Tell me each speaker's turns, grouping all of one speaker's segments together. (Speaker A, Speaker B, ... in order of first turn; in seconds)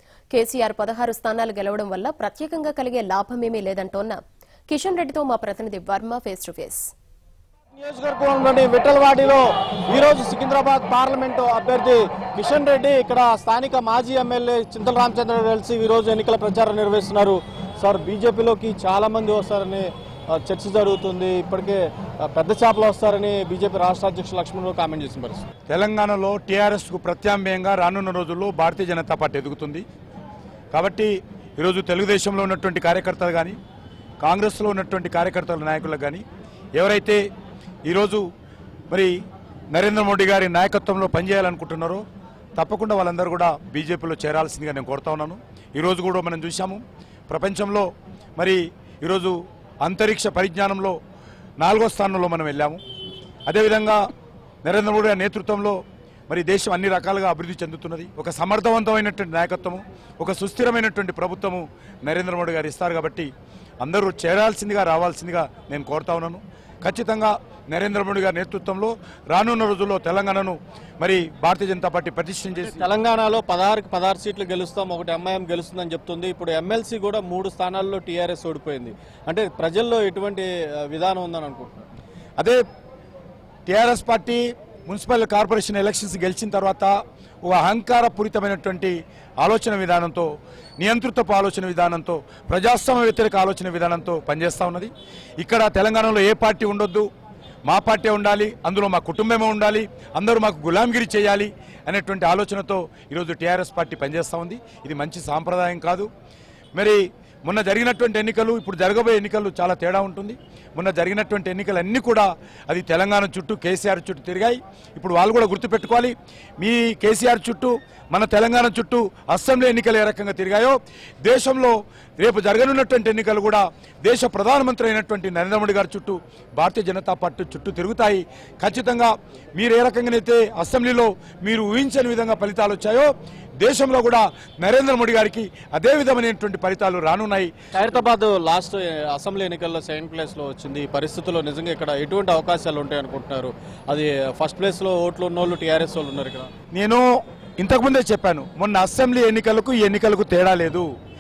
Speaker A: 0.3-6.9
Speaker B: 7.7-25.4, 72.6-81.9, 137.7-146.5
Speaker C: 25.7-29.8, 30.7-33.5, 34.2-36.2, 36.8-37.2, 37.9-38.2, 39.7-42.0, 42.5-51.0, 51.6-52.8, 53.5-54.1, 54.6-63.3, 63.8-72.8, 83.7-90.3, 90.8-97.1, 97.6-106.1, 106.8-133.1, 133.6-137.5, 146.7-147.0, 147.6-150.9